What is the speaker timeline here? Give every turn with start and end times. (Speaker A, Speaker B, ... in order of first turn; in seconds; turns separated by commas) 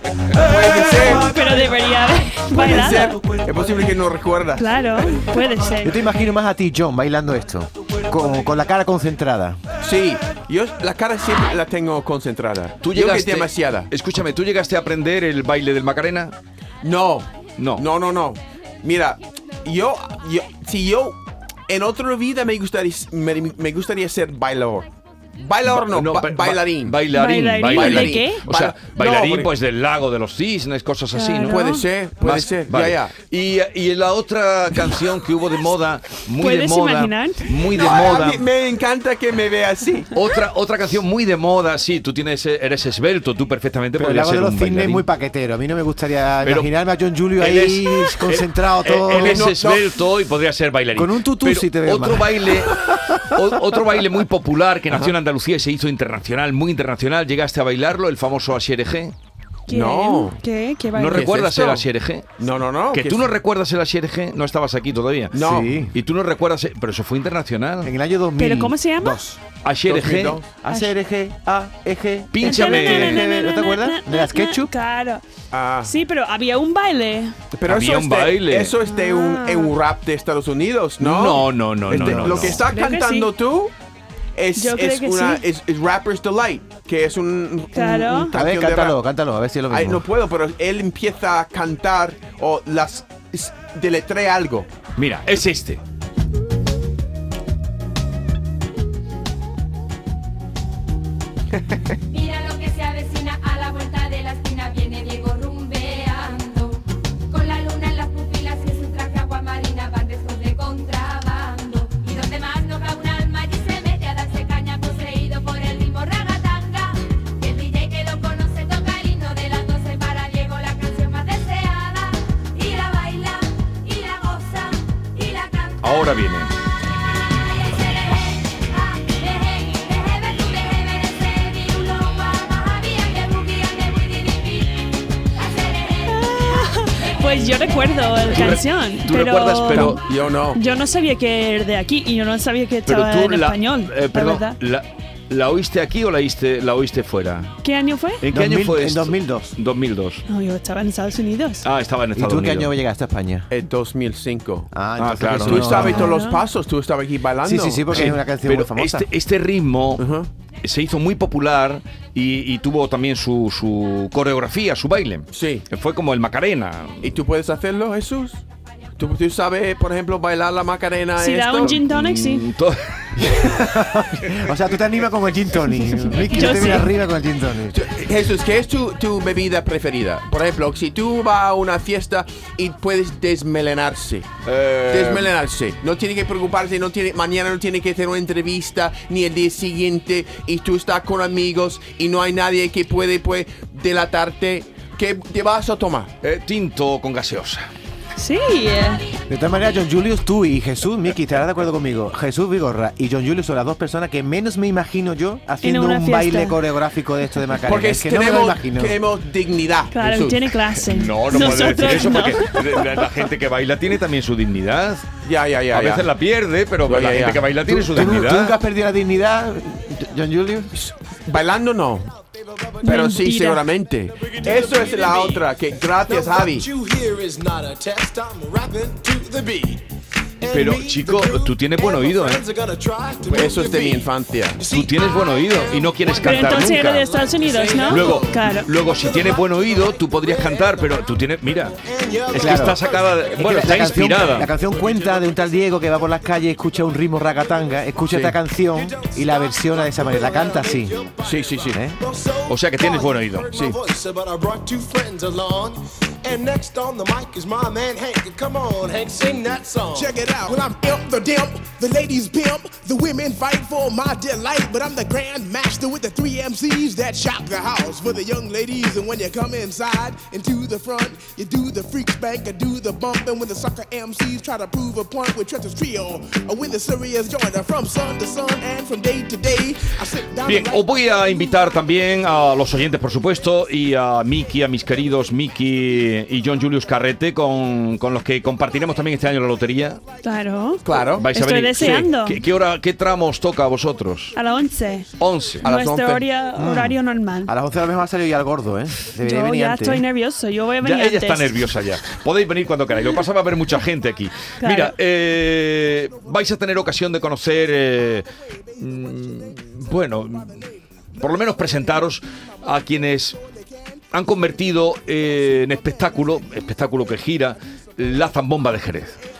Speaker A: 0.3-1.3, Speaker B: 1.1-3.2, Speaker A: 2.5-4.7, Speaker B: 4.5-6.0, Speaker C: 5.8-9.6, Speaker A: 9.8-13.9, Speaker D: 12.8-16.3, Speaker A: 16.8-27.0, Speaker D: 17.6-17.9, Speaker D: 25.6-38.5, Speaker B: 27.1-28.4, Speaker A: 27.7-29.5, Speaker B: 31.1-31.8, Speaker A: 31.5-33.1, Speaker B: 36.4-37.7, Speaker A: 37.7-40.1, Speaker D: 40.1-45.0, Speaker C: 43.9-49.5, Speaker D: 46.4-46.7, Speaker D: 47.3-59.1, Speaker A: 49.1-49.9, Speaker C: 50.9-53.8, Speaker B: 59.7-61.3, Speaker A: 59.7-60.4, Speaker D: 60.9-62.4, Speaker A: 61.2-61.9, Speaker A: 62.4-63.3, Speaker D: 62.9-67.9, Speaker A: 65.3-65.8, Speaker C: 65.4-65.9, Speaker C: 67.8-69.4, Speaker B: 68.4-69.2, Speaker D: 69.6-70.4, Speaker A: 69.8-70.5, Speaker C: 70.6-74.7, Speaker B: 70.6-70.9, Speaker D: 72.3-73.2, Speaker B: 72.4-75.2, Speaker A: 75.5-75.9, Speaker B: 75.8-77.3, Speaker A: 77.5-83.7, Speaker D: 77.7-78.8, Speaker B: 78.9-79.7, Speaker D: 81.0-82.6, Speaker C: 81.9-82.6, Speaker B: 82.6-83.3, Speaker A: 84.3-89.0, Speaker B: 84.5-85.4, Speaker B: 87.7-88.3, Speaker C: 88.3-90.1, Speaker A: 89.7-94.7, Speaker D: 95.0-95.8, Speaker E: 102.1-126.1, Speaker D: 125.8-126.5, Speaker E: 127.4-134.8, Speaker E: 135.3-136.2, Speaker B: 136.1-140.0, Speaker D: 138.3-140.0, Speaker A: 139.7-140.6, Speaker B: 140.5-144.6, Speaker D: 142.9-147.6, Speaker B: 147.6-148.2, Speaker D: 148.2-150.2, Speaker C: 148.3-149.5, Speaker B: 150.3-151.7, Speaker D: 151.6-152.7, Speaker C: 152.1-153.5, Speaker A: 153.5-154.7, Speaker C: 154.7-156.2, Speaker D: 155.0-156.1, Speaker A: 155.4-157.9, Speaker B: 155.8-156.4, Speaker C: 157.4-159.1, Speaker D: 157.9-160.1, Speaker A: 160.0-160.3, Speaker D: 160.6-167.2, Speaker A: 165.3-165.7, Speaker A: 167.0-168.4, Speaker A: 169.0-171.8, Speaker B: 171.2-172.5, Speaker D: 171.6-173.4, Speaker C: 173.2-177.9, Speaker B: 176.1-176.9, Speaker A: 177.7-184.3, Speaker D: 184.4-185.3, Speaker A: 184.9-196.1, Speaker D: 196.2-197.7, Speaker B: 198.2-199.1, Speaker C: 199.3-209.0, Speaker B: 205.6-206.6, Speaker A: 207.6-210.5, Speaker B: 209.9-212.8, Speaker D: 210.8-215.1, Speaker A: 215.2-216.1, Speaker D: 215.7-218.6, Speaker A: 216.8-217.4, Speaker C: 217.7-220.7, Speaker A: 220.7-222.1, Speaker F: 222.5-222.9, Speaker B: 222.8-223.6, Speaker A: 222.8-226.7, Speaker F: 224.2-229.9, Speaker F: 230.4-260.3, Speaker D: 230.5-232.5, Speaker A: 233.3-234.6, Speaker D: 234.7-237.1, Speaker B: 236.2-238.7, Speaker D: 237.8-241.8, Speaker D: 242.3-244.5, Speaker C: 242.3-251.0, Speaker A: 248.1-248.4, Speaker A: 251.2-251.8, Speaker C: 251.7-252.0, Speaker D: 252.4-253.6, Speaker A: 253.5-253.8, Speaker G: 260.0-280.8, Speaker D: 280.4-290.0, Speaker B: 290.2-292.4, Speaker A: 290.8-291.3, Speaker D: 291.1-294.4, Speaker B: 294.3-295.1, Speaker D: 295.2-295.6, Speaker A: 295.6-296.2, Speaker B: 295.6-297.5, Speaker C: 296.6-300.0, Speaker B: 299.2-301.5, Speaker D: 300.8-313.4, Speaker B: 304.6-304.9, Speaker D: 314.1-319.2